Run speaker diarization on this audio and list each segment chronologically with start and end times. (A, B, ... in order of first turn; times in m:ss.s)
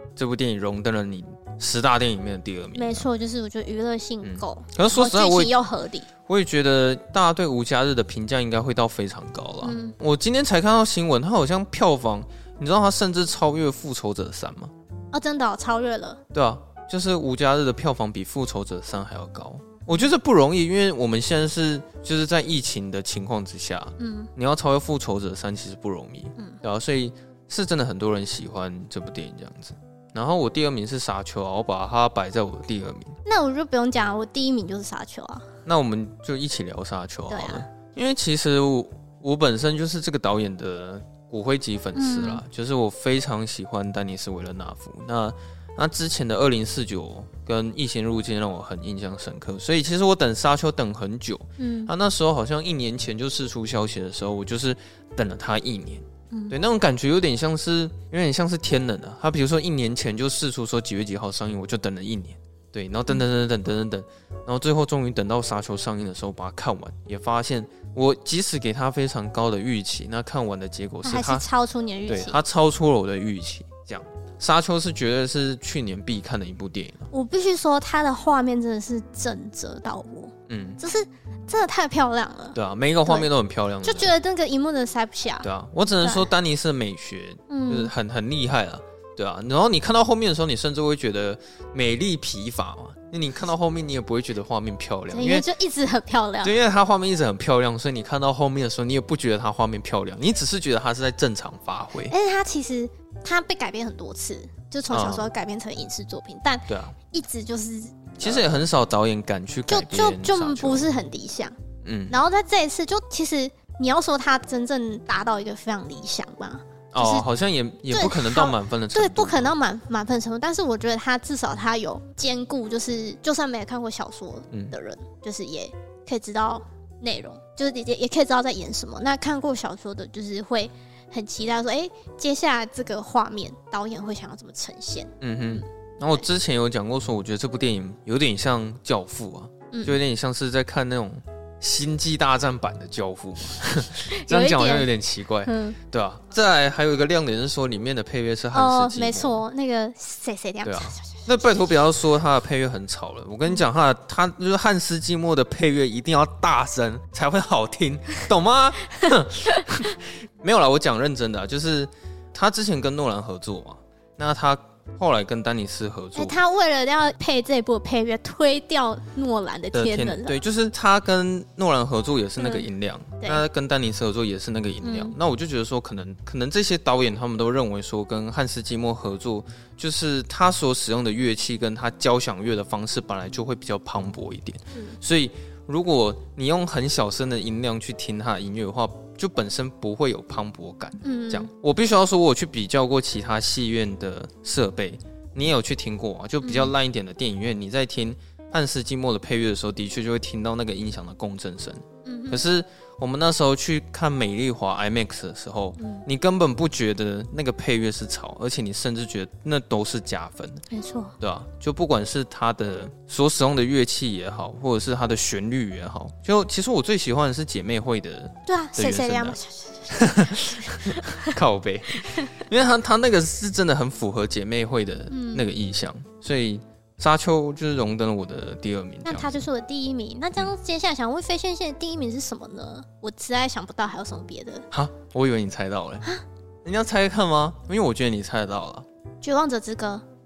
0:00.2-0:03.1 A
0:02.7-0:06.1 B
0:04.2-0:05.5 A
0:06.3-0:14.7 A
0:09.6-0:09.9 B
0:15.1-0:16.2 B
0:16.3-0:33.2 A
0:24.0-0:24.3 B
0:33.2-0:35.5 B
0:35.6-1:11.4 A
0:37.3-0:37.6 B
0:41.9-0:42.4 B
0:51.6-0:51.9 B
1:11.0-1:12.4 B
1:12.1-1:17.1 A
1:17.1-1:23.3 B
1:20.5-1:20.8 A
1:22.5-1:24.1 A
1:23.8-1:25.5 B
1:25.4-1:35.5 A
1:26.0-1:26.3 B
1:27.5-1:27.9 B
1:35.1-1:36.5 B
1:36.4-1:42.1 A
1:42.1-1:48.5 B
1:44.9-1:45.3 A
1:46.7-1:47.0 A
1:48.2-1:50.9 A
1:49.7-1:51.5 B
1:51.8-1:52.2 A
1:52.1-1:57.2 B
1:56.9-1:59.5 A
1:57.9-2:15.1 B
2:15.2-2:29.4 A
2:19.7-2:20.0 B
2:24.1-2:24.9 B
2:25.4-2:25.8 B
2:28.5-2:31.3 B
2:30.6-2:46.4 A
2:46.1-2:50.4 B
2:49.7-3:30.6 A
2:52.4-2:52.7 B
2:54.8-2:55.1 B
3:11.0-3:11.5 B
3:16.4-3:16.7 B
3:22.0-3:22.4 B
3:25.8-3:26.0 B
3:30.7-3:31.1 B
3:31.2-3:39.4 A
3:38.5-3:41.4 B
3:39.9-3:49.4 A
3:42.0-3:42.4 B
3:45.1-3:45.5 B
3:49.0-3:54.6 B
3:54.7-3:56.0 A
3:56.6-3:58.8 A
3:59.2-4:00.0 B